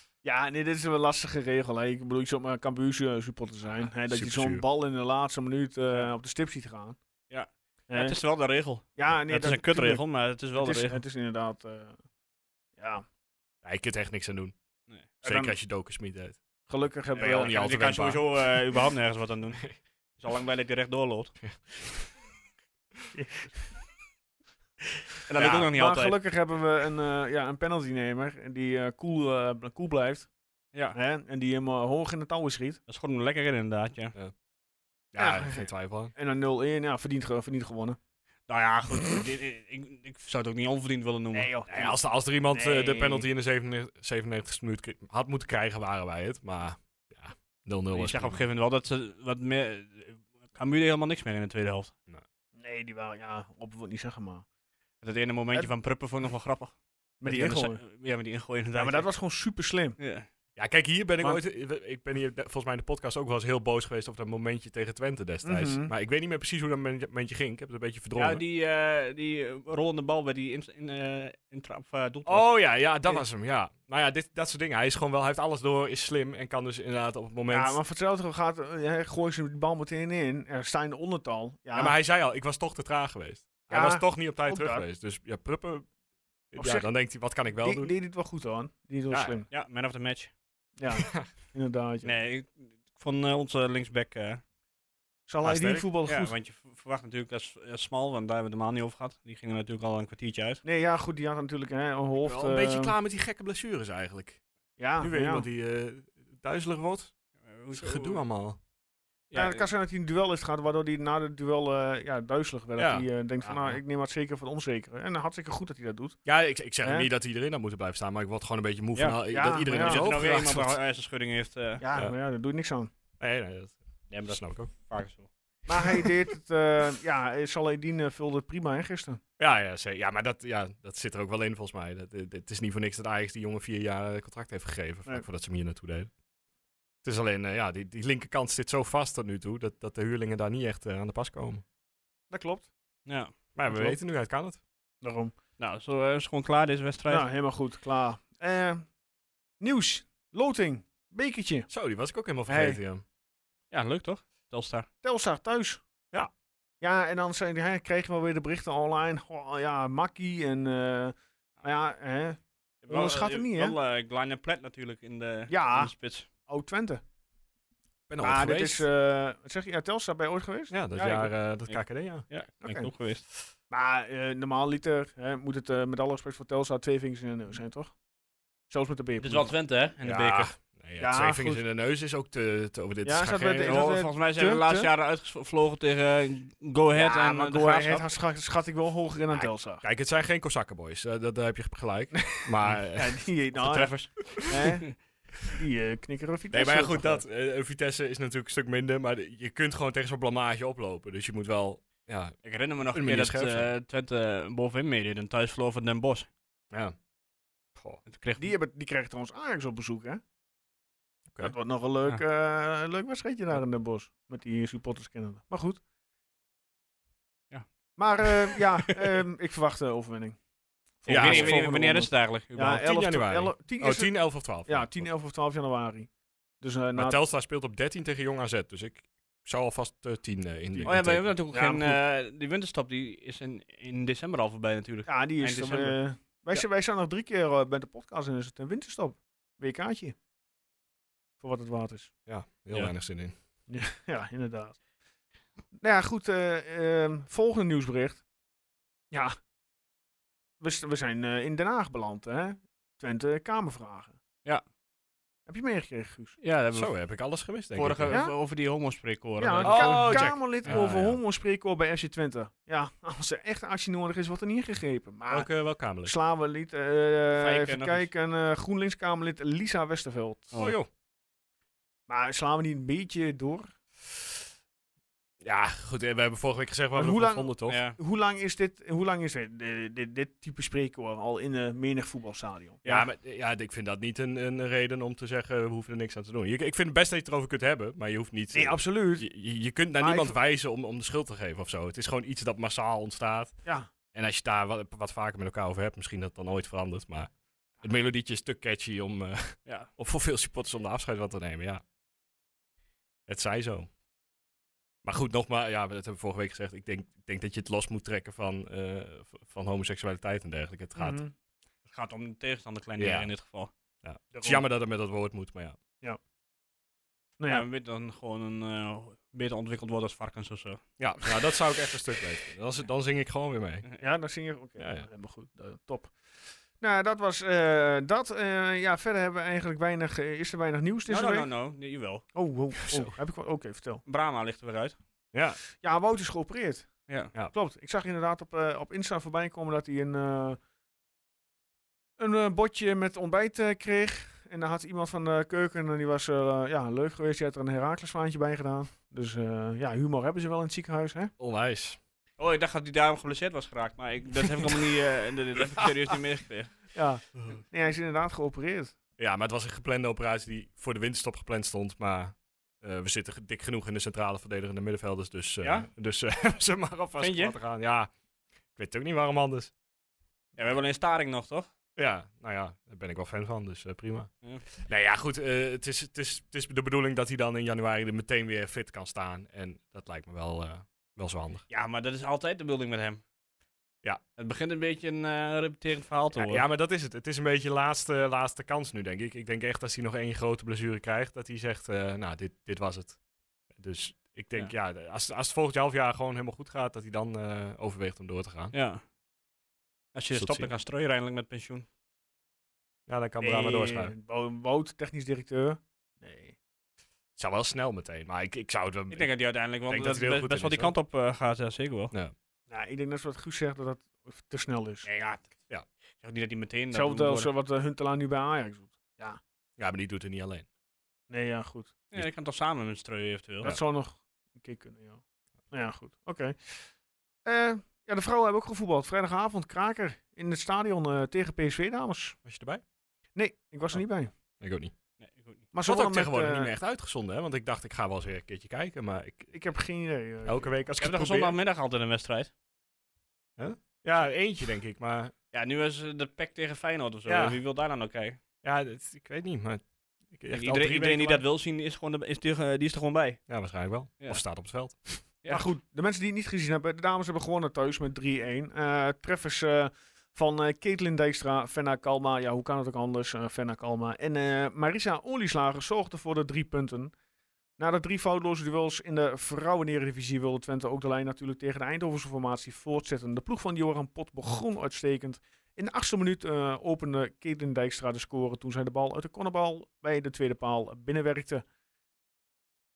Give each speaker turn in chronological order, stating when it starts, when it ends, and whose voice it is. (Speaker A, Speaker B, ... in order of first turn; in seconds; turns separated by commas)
Speaker A: 0.2-7.0, Speaker B: 4.1-4.6, Speaker C: 7.3-11.0, Speaker A: 7.9-8.2, Speaker A: 8.9-10.0, Speaker A: 10.6-12.0, Speaker A: 12.8-13.0, Speaker B: 13.6-14.5, Speaker B: 15.2-16.4, Speaker A: 15.2-15.5, Speaker A: 16.7-17.6, Speaker C: 17.1-21.3, Speaker B: 17.2-18.2, Speaker A: 23.1-23.4, Speaker C: 25.2-26.2, Speaker A: 25.4-30.3, Speaker A: 30.9-32.8, Speaker C: 32.9-34.1, Speaker B: 35.1-36.1, Speaker A: 35.2-38.0, Speaker C: 38.5-41.9, Speaker A: 41.3-42.0, Speaker B: 41.7-48.4, Speaker A: 42.5-43.2, Speaker C: 47.9-51.9, Speaker A: 52.5-54.4, Speaker C: 55.0-59.1, Speaker A: 57.2-57.8, Speaker A: 58.8-60.0, Speaker C: 60.0-60.3, Speaker B: 60.5-68.4, Speaker A: 65.4-65.9, Speaker C: 68.1-72.5, Speaker B: 72.2-77.8, Speaker A: 77.5-81.9, Speaker B: 81.7-85.9, Speaker A: 83.7-84.8, Speaker B: 86.5-87.9, Speaker A: 86.5-86.9, Speaker A: 87.5-89.5, Speaker B: 89.1-89.3, Speaker C: 89.5-90.3, Speaker A: 90.8-92.1, Speaker B: 91.0-91.3, Speaker C: 92.0-94.4, Speaker A: 95.3-96.3, Speaker B: 95.4-95.9, Speaker C: 96.0-100.6, Speaker A: 100.6-102.9, Speaker B: 102.2-104.4, Speaker A: 104.8-105.5, Speaker B: 105.0-107.1, Speaker C: 107.4-108.2, Speaker B: 107.7-108.6, Speaker C: 109.3-109.7, Speaker A: 109.3-116.2, Speaker B: 112.8-113.8, Speaker B: 116.2-120.8, Speaker A: 116.8-117.1, Speaker C: 118.9-119.2, Speaker A: 119.3-120.1, Speaker C: 119.7-121.8, Speaker A: 121.8-122.9, Speaker B: 123.2-124.7, Speaker C: 124.1-125.3, Speaker A: 125.7-129.2, Speaker B: 129.4-136.1, Speaker B: 137.0-141.6, Speaker A: 142.3-142.7, Speaker C: 143.1-143.3, Speaker B: 143.5-144.6, Speaker A: 143.6-143.9, Speaker A: 145.0-145.3, Speaker C: 145.6-147.3, Speaker A: 147.1-148.8, Speaker A: 149.6-151.7, Speaker B: 151.7-153.0, Speaker A: 152.5-152.8, Speaker C: 153.7-154.9, Speaker A: 155.0-155.8, Speaker A: 156.8-163.8, Speaker C: 162.8-166.3, Speaker A: 165.5-165.9, Speaker A: 166.4-167.0, Speaker B: 168.1-168.9, Speaker A: 168.2-171.3, Speaker B: 170.7-172.2, Speaker C: 171.7-173.2, Speaker A: 172.6-172.9, Speaker A: 173.7-177.9, Speaker A: 178.7-179.5, Speaker C: 179.2-180.5, Speaker B: 180.0-183.8, Speaker A: 181.0-181.6, Speaker A: 183.0-184.9, Speaker C: 183.6-188.0, Speaker A: 186.9-189.8, Speaker B: 189.3-193.2, Speaker A: 192.1-194.9, Speaker C: 193.5-194.9, Speaker A: 195.5-197.2, Speaker B: 196.5-202.3, Speaker C: 202.4-206.3, Speaker B: 202.9-203.7, Speaker B: 207.7-208.0, Speaker C: 208.1-208.5, Speaker A: 208.4-210.2, Speaker A: 211.4-215.8, Speaker A: 217.9-220.4, Speaker C: 218.2-218.6, Speaker A: 221.0-226.1, Speaker B: 221.1-221.6, Speaker C: 221.1-222.8, Speaker B: 222.8-225.1, Speaker A: 226.6-227.2, Speaker B: 226.9-231.3, Speaker C: 230.8-236.0, Speaker A: 231.5-232.0, Speaker A: 235.1-240.1, Speaker A: 241.4-242.1, Speaker B: 242.2-243.3, Speaker A: 243.7-244.8, Speaker A: 245.8-248.2, Speaker A: 249.1-249.3, Speaker A: 250.6-254.2, Speaker A: 255.5-256.4, Speaker C: 256.4-256.9, Speaker B: 256.7-258.2, Speaker C: 257.7-260.9, Speaker A: 258.1-258.3, Speaker A: 259.4-265.5, Speaker B: 259.6-261.2, Speaker B: 265.3-266.1, Speaker A: 266.0-270.6, Speaker C: 267.4-268.1, Speaker B: 270.5-270.9, Speaker A: 272.1-273.7, Speaker B: 275.4-277.8, Speaker A: 276.9-282.8, Speaker C: 277.7-278.0, Speaker B: 282.9-293.5, Speaker A: 288.5-289.3, Speaker A: 290.0-290.4, Speaker A: 293.6-293.9, Speaker B: 294.1-301.8, Speaker B: 303.3-303.9, Speaker B: 305.0-311.2, Speaker A: 310.9-311.3, Speaker C: 311.9-313.7, Speaker B: 313.0-313.3, Speaker B: 314.0-315.8, Speaker A: 314.3-314.6, Speaker A: 317.4-317.6, Speaker C: 317.5-320.8, Speaker B: 321.0-323.9, Speaker A: 324.0-331.5, Speaker B: 324.8-325.1, Speaker C: 331.1-332.2, Speaker A: 332.3-334.0, Speaker B: 332.8-333.1, Speaker C: 334.1-335.0, Speaker B: 335.3-335.6, Speaker A: 335.8-336.9, Speaker A: 337.5-340.6, Speaker A: 342.2-351.3, Speaker B: 351.4-352.0, Speaker C: 352.4-356.8, Speaker A: 356.9-358.9, Speaker B: 359.2-368.1, Speaker C: 365.6-365.9, Speaker C: 367.2-367.5, Speaker B: 368.8-369.7, Speaker C: 370.6-371.7, Speaker B: 371.9-381.6, Speaker C: 381.7-383.2, Speaker C: 384.4-386.6, Speaker B: 386.3-393.2, Speaker B: 393.7-398.7, Speaker C: 398.7-399.0, Speaker C: 400.1-401.9, Speaker B: 400.3-400.7, Speaker B: 403.1-404.1, Speaker A: 403.4-406.6, Speaker B: 407.4-409.3, Speaker C: 409.1-412.1, Speaker B: 409.9-410.9, Speaker A: 412.7-415.1, Speaker C: 415.0-415.5, Speaker C: 416.2-417.5, Speaker A: 416.9-419.4, Speaker B: 419.8-420.6, Speaker A: 421.3-421.9, Speaker C: 422.1-423.7, Speaker A: 423.6-426.9, Speaker A: 427.4-432.4, Speaker B: 432.4-432.8, Speaker A: 433.3-434.3, Speaker B: 434.6-434.9, Speaker C: 435.2-435.6, Speaker A: 435.7-436.7, Speaker B: 435.8-439.5, Speaker A: 439.5-440.7, Speaker B: 440.4-441.6, Speaker C: 441.0-442.5, Speaker B: 443.6-445.3, Speaker C: 445.5-448.4, Speaker B: 447.2-447.6, Speaker B: 448.6-451.4, Speaker C: 450.5-453.4, Speaker B: 453.5-455.2, Speaker A: 455.5-467.1, Speaker A: 467.8-481.6